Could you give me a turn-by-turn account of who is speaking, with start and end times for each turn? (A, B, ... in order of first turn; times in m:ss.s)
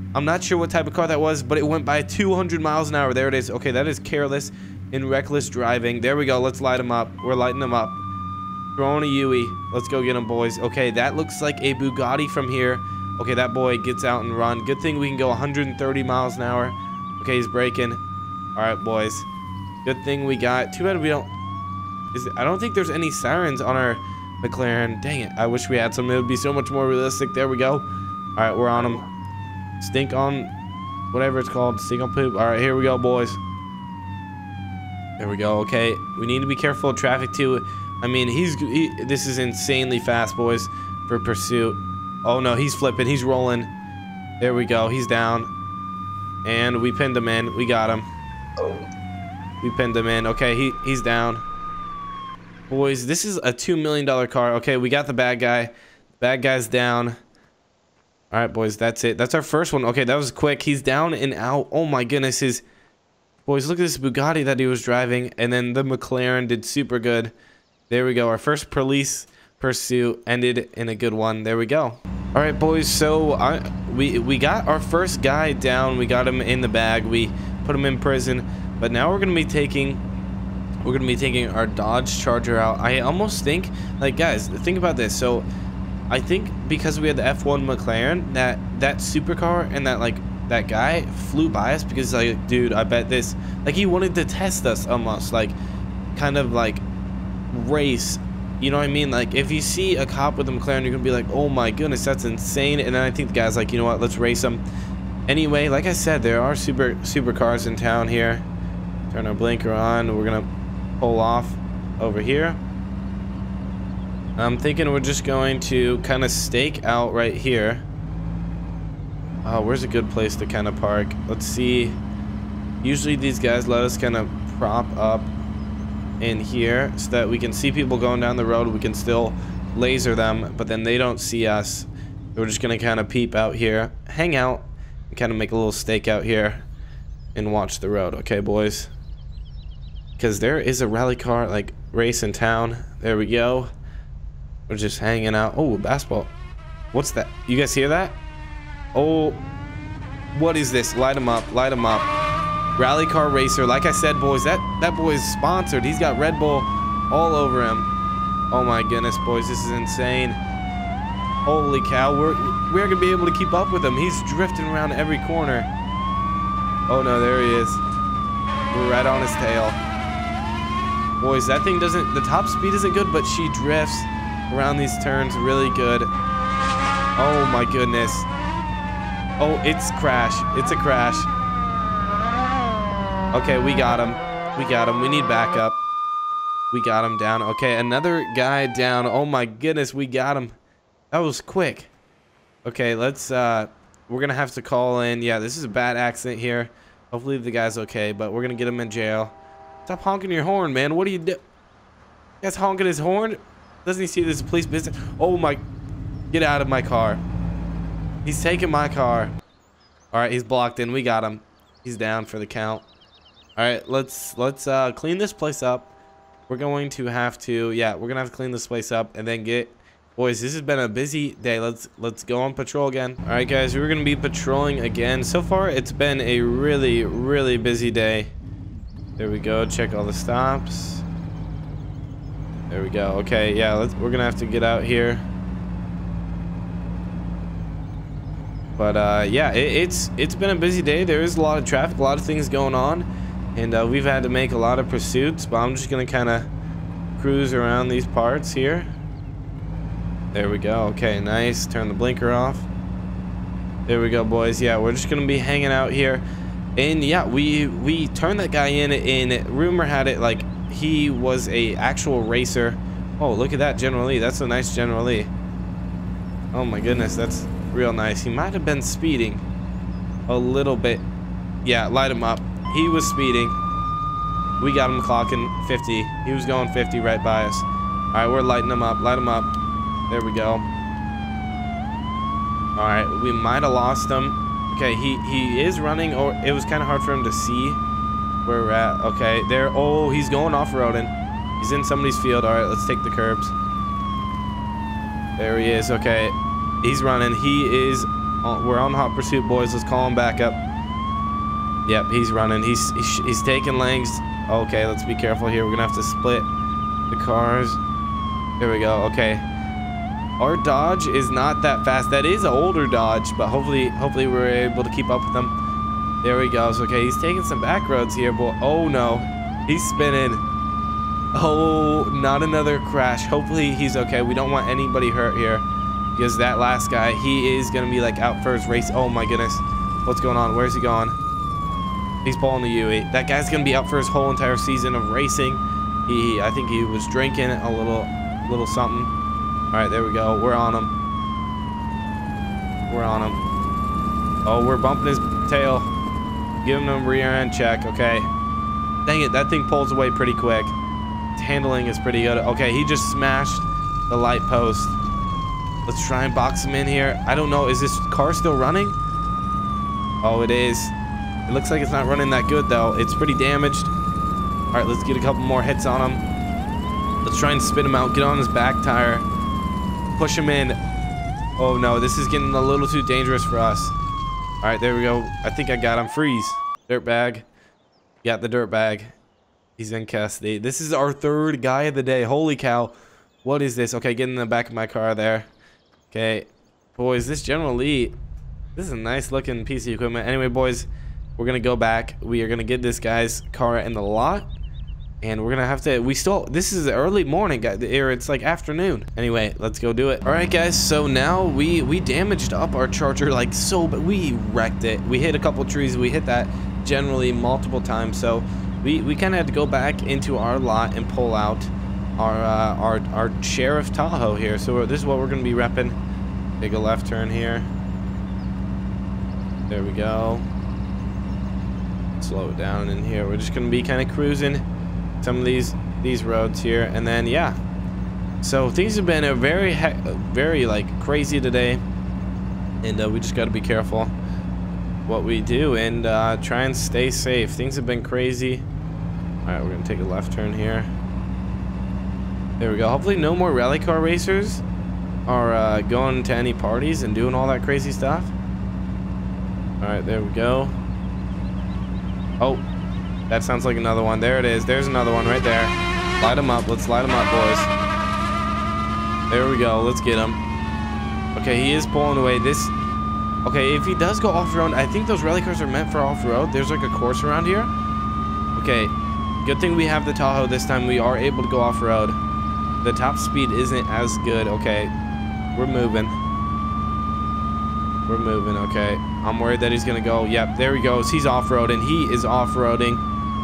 0:00.1-0:08.0 A
0:08.8-0:18.0 A
0:18.6-0:19.3 A
0:19.8-0:21.3 A
0:22.1-0:29.0 A
0:29.8-0:30.5 A
0:31.1-0:33.4 A
0:35.2-0:43.7 A
0:44.4-0:45.5 A
0:46.4-0:48.0 A
0:49.6-0:51.4 A
0:52.7-0:57.2 A
0:58.3-1:02.6 A
1:03.4-1:07.3 A
1:07.9-1:20.0 A
1:20.8-1:25.5 A
1:26.1-1:35.6 A
1:36.1-1:36.8 A
1:37.5-1:44.6 A
1:45.3-1:48.4 A
1:49.1-1:50.5 A
1:51.0-1:52.6 A
1:54.4-1:57.8 A
1:59.4-2:02.0 A
2:02.8-2:05.3 A
2:06.2-2:16.6 A
2:17.3-2:18.9 A
2:20.2-2:23.7 A
2:24.7-2:26.3 A
2:26.9-2:28.2 A
2:28.9-2:29.4 A
2:30.3-2:32.1 A
2:32.8-2:37.9 A
2:38.5-2:40.4 A
2:41.4-2:45.7 A
2:46.9-2:47.8 A
2:48.7-2:49.8 A
2:51.2-2:56.1 A
2:57.2-2:58.3 A
2:59.4-3:01.3 A
3:03.3-3:05.8 A
3:06.7-3:10.5 A
3:11.1-3:11.9 A
3:12.6-3:21.4 A
3:22.4-3:25.6 A
3:26.3-3:27.2 A
3:28.2-3:29.3 A
3:30.1-3:32.8 A
3:33.6-3:35.9 A
3:36.5-3:48.3 A
3:49.2-3:51.0 A
3:52.7-3:55.2 A
3:58.8-4:06.5 A
4:07.2-4:08.9 A
4:10.3-4:12.7 A
4:13.9-4:16.2 A
4:16.8-4:25.3 A
4:26.5-4:29.4 A
4:30.3-4:31.1 A
4:31.6-4:33.6 A
4:34.6-4:39.5 A
4:40.1-4:40.6 A
4:42.8-4:47.8 A
4:48.4-4:53.5 A
4:55.4-5:00.6 A
5:01.8-5:06.5 A
5:07.1-5:07.8 A
5:08.6-5:09.4 A
5:10.4-5:15.5 A
5:16.2-5:20.4 A
5:21.3-5:31.2 A
5:32.2-5:39.1 A
5:39.7-5:40.9 A
5:42.9-5:43.4 A
5:44.4-5:45.9 A
5:46.6-5:48.3 A
5:49.0-5:50.7 A
5:51.4-5:55.0 A
5:55.8-5:59.0 A
6:00.2-6:00.9 A
6:01.5-6:03.9 A
6:04.7-6:06.2 A
6:07.2-6:09.2 A
6:10.2-6:10.8 A
6:11.6-6:13.9 A
6:14.6-6:17.4 A
6:18.2-6:19.1 A
6:19.8-6:22.9 A
6:23.4-6:25.5 A
6:26.1-6:28.2 A
6:28.8-6:34.5 A
6:35.2-6:56.0 A
6:56.6-6:57.7 A
6:59.7-7:00.4 A
7:02.2-7:04.6 A
7:05.2-7:07.6 A
7:08.4-7:11.8 A
7:12.8-7:14.1 A
7:15.0-7:18.6 A
7:19.4-7:20.9 A
7:22.6-7:24.6 A
7:25.3-7:28.3 A
7:29.8-7:30.7 A
7:32.4-7:32.6 A
7:33.3-7:37.7 A
7:39.3-7:40.4 A
7:41.3-7:42.7 A
7:43.4-7:47.7 A
7:48.5-7:52.2 A
7:52.8-7:54.9 A
7:55.5-7:56.1 A
7:58.1-8:03.0 A